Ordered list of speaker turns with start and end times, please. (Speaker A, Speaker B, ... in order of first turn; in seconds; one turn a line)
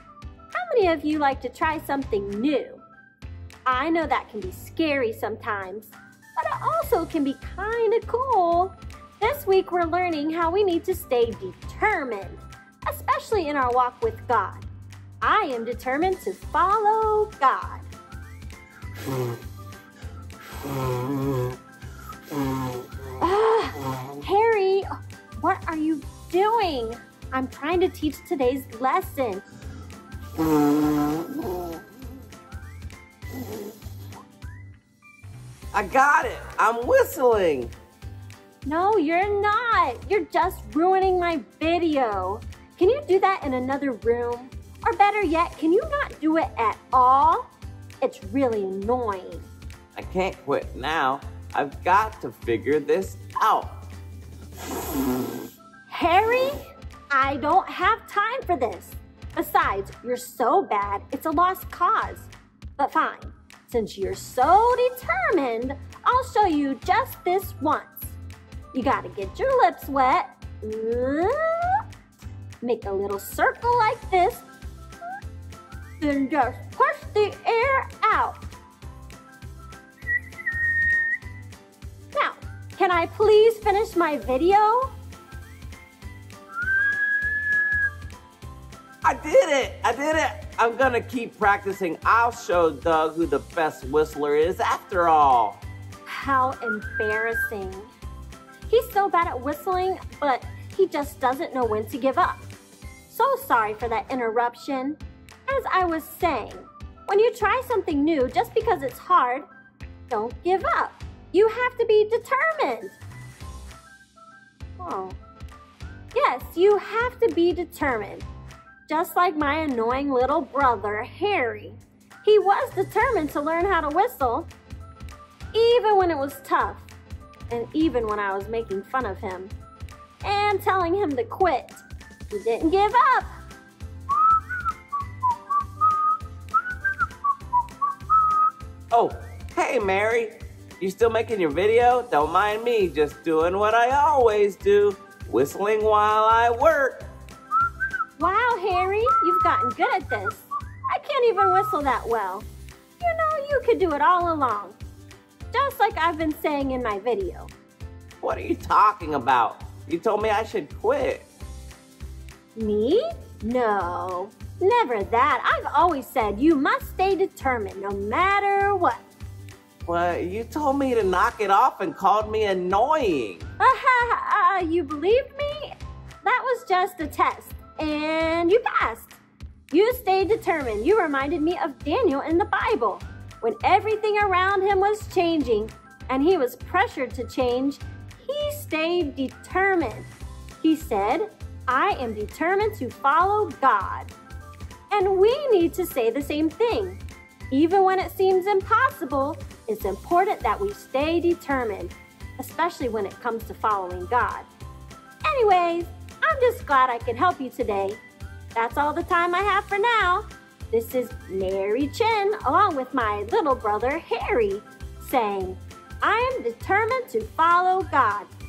Speaker A: 0.5-2.8
Speaker A: 3.7-14.7
Speaker A: 15.2-17.9
Speaker A: 23.2-24.9
Speaker A: 25.4-29.4
Speaker B: 35.7-37.7
Speaker A: 38.6-47.5
Speaker A: 48.0-49.5
Speaker B: 50.0-53.8
Speaker A: 55.9-68.2
Speaker A: 68.7-71.8
Speaker A: 72.6-74.5
Speaker A: 76.0-78.4
Speaker A: 82.1-84.9
Speaker B: 89.0-95.6
Speaker A: 96.1-97.9
Speaker A: 98.7-102.5
Speaker A: 103.1-109.5
Speaker A: 110.1-113.0
Speaker A: 114.8-115.2
Speaker A: 116.1-118.3
Speaker A: 118.9-124.5
Speaker A: 125.5-126.9
Speaker A: 127.5-129.5
Speaker A: 130.2-133.3
Speaker B: 138.9-147.1
Speaker A: 148.2-152.5
Speaker A: 153.0-154.8
Speaker A: 155.5-157.5
Speaker B: 158.2-161.3
Speaker A: 162.6-169.0
Speaker B: 169.9-173.5
Speaker A: 173.6-179.2
Speaker A: 179.7-194.1
Speaker A: 194.9-197.0
Speaker A: 197.5-204.5
Speaker A: 205.2-208.0
Speaker A: 208.6-218.3